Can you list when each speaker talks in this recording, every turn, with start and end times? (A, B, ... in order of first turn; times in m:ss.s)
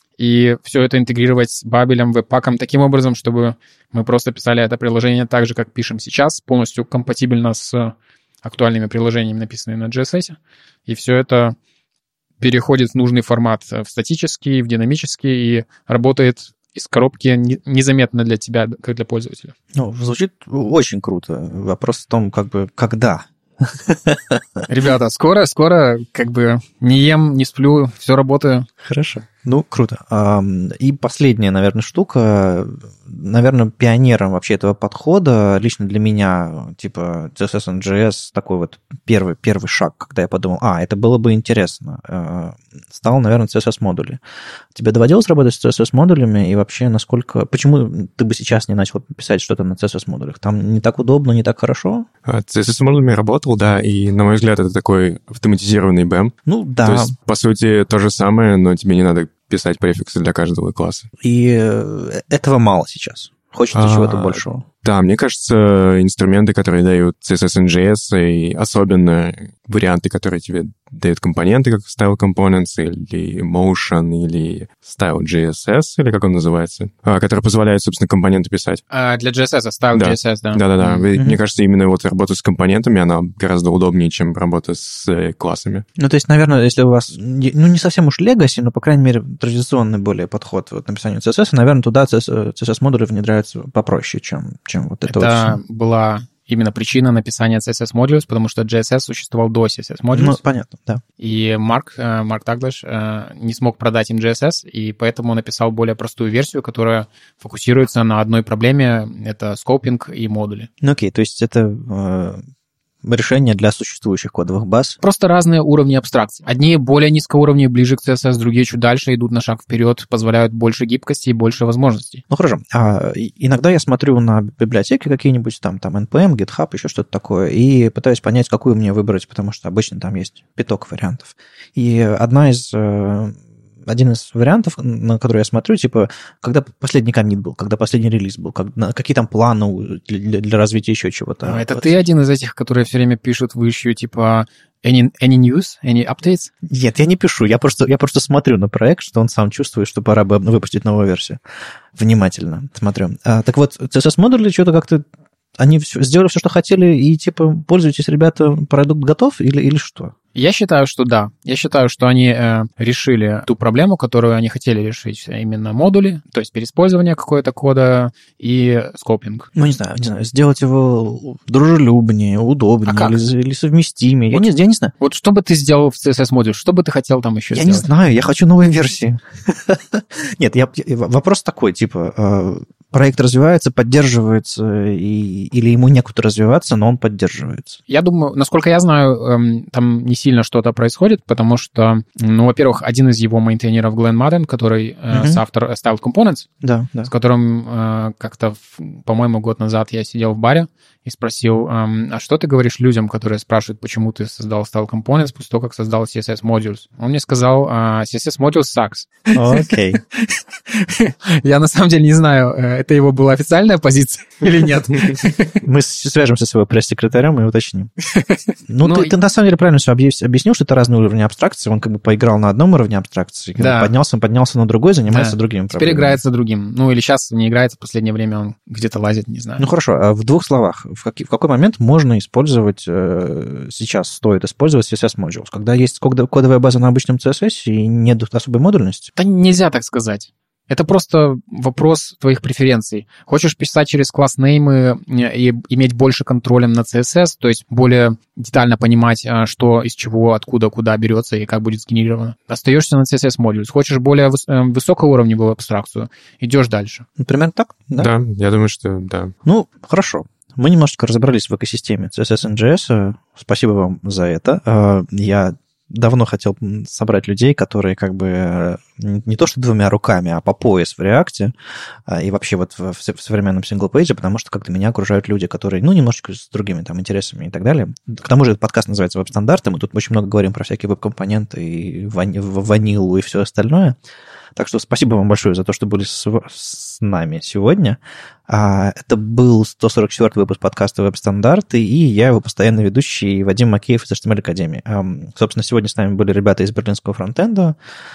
0:00.2-0:11.6 A
0:12.4-0:19.5 A
0:19.7-0:24.6 B
0:24.7-0:28.7 A
0:28.8-0:44.2 B
0:44.7-0:52.1 B
0:52.2-1:01.1 C
0:56.4-0:57.1 B
1:01.2-1:04.6 B
1:03.7-1:18.8 C
1:18.9-1:21.1 A
1:19.9-1:25.8 C
1:26.0-1:35.6 B
1:35.0-1:40.4 A
1:40.1-1:41.0 B
1:41.2-1:50.7 A
1:50.8-1:52.4 B
1:53.0-1:55.0 B
1:55.0-2:02.2 A
2:02.3-2:22.0 B
2:21.4-2:26.5 A
2:26.6-2:31.4 B
2:31.9-2:35.0 B
2:35.6-2:40.1 B
2:40.3-2:49.5 A
2:49.5-2:54.9 B
2:52.9-2:53.2 A
2:55.0-2:57.9 A
2:57.5-3:07.8 B
3:07.9-3:16.5 A
3:15.1-3:15.4 B
3:16.6-3:17.1 B
3:17.0-3:35.6 A
3:29.3-3:30.0 B
3:35.6-3:37.9 B
3:38.1-3:39.1 A
3:38.7-3:46.2 B
3:43.6-3:43.9 A
3:45.1-3:49.6 A
3:49.6-3:59.1 B
3:59.2-4:17.0 A
4:17.2-4:18.1 B
4:18.0-4:19.3 C
4:19.4-4:31.5 B
4:32.0-4:44.0 B
4:44.6-4:57.8 B